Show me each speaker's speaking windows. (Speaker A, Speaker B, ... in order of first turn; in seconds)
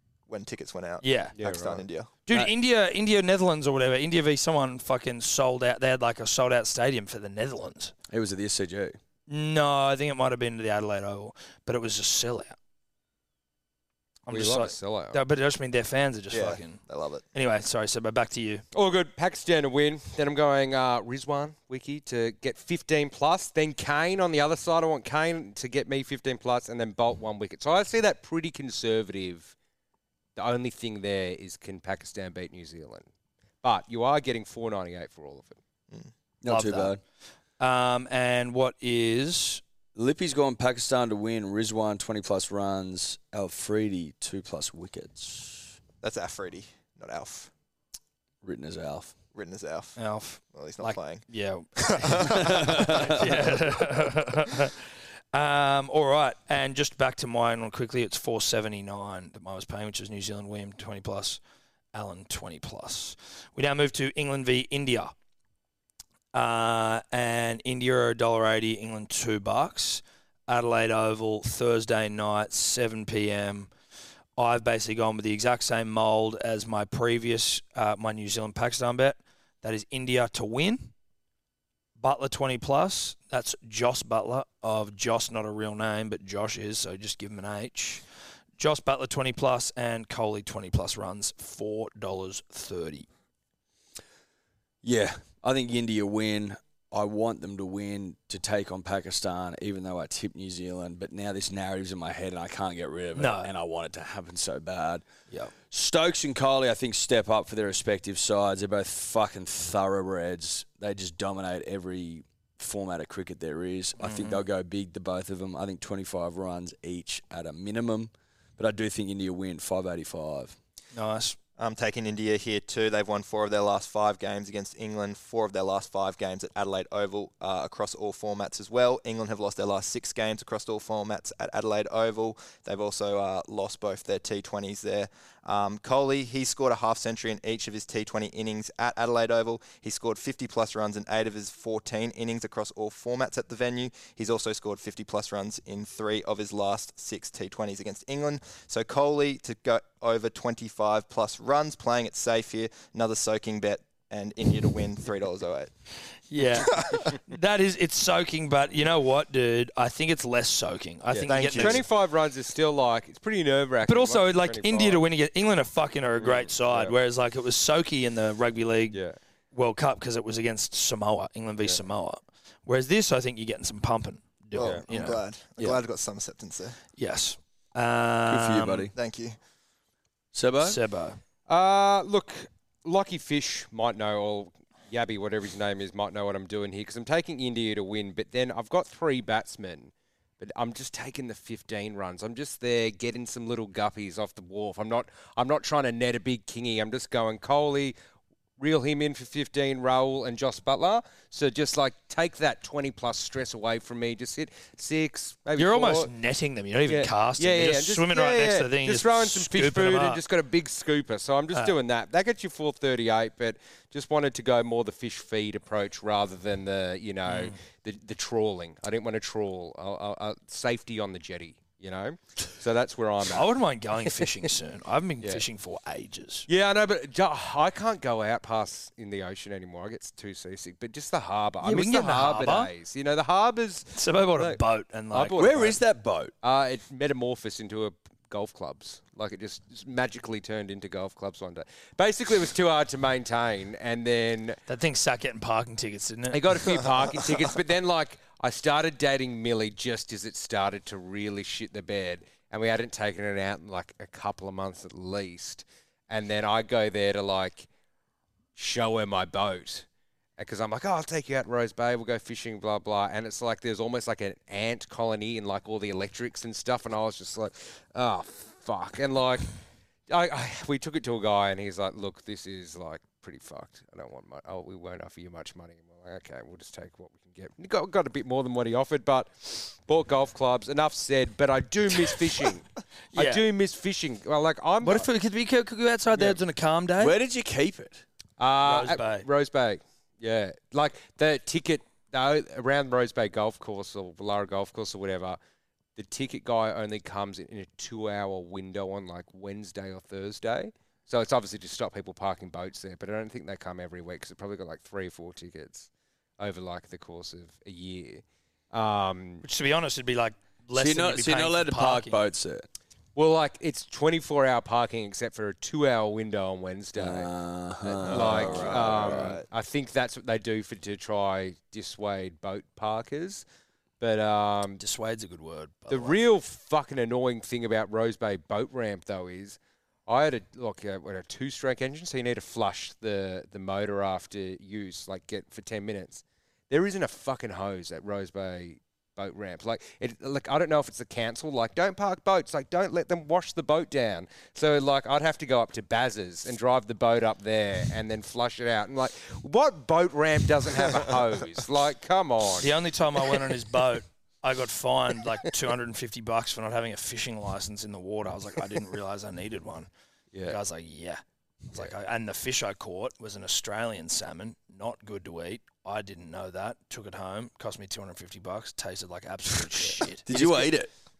Speaker A: 0.3-2.1, 16.3-17.2, 46.0-47.5, 49.3-50.0, 50.5-51.2, 51.8-53.5, 121.6-155.7, 156.6-157.2, 161.2-161.8, 174.5-176.8, 178.9-179.4, 318.0-319.4
Speaker B: 1.0-1.4, 2.2-7.9, 9.3-12.6, 14.3-16.8, 17.3-18.6, 36.5-37.0, 37.6-39.6, 50.0-54.8, 55.3-61.4, 61.9-65.1, 66.3-73.7, 74.4-80.9, 82.0-88.0, 88.6-93.1, 103.1-103.5, 114.0-114.4, 120.9-121.4, 156.3-161.8, 163.8-169.0, 169.5-175.8, 176.9-178.9, 180.6-181.2, 205.6-210.2, 217.3-217.6, 223.2-226.5, 231.6-232.7, 233.9-235.8, 244.7-246.6, 283.1-283.4, 284.8-287.1, 288.6-289.3, 309.4-312.2, 324.8-326.2, 352.6-359.9, 360.4-370.7
Speaker C: 1.4-1.8, 14.3-15.2, 18.7-29.5, 30.4-33.1, 33.6-35.6, 161.1-165.0, 166.2-166.9, 181.5-197.9, 198.6-206.1, 206.9-223.5, 226.5-234.6, 235.1-235.8, 236.4-244.6, 246.3-257.7, 258.6-259.9, 260.4-269.5, 270.1-285.1, 286.1-286.4, 288.4-295.4, 295.9-305.9, 306.4-309.4, 313.1-317.3, 317.8-323.4, 324.0-324.8, 325.9-352.7, 360.3-360.6
Speaker D: 8.1-9.0, 36.4-37.0, 39.9-45.8, 48.4-49.1, 52.3-53.2, 94.8-105.0, 105.7-120.5, 178.3-178.9, 180.3-180.8, 235.3-236.3, 287.0-288.0, 310.7-312.7, 316.9-319.4, 370.2-370.9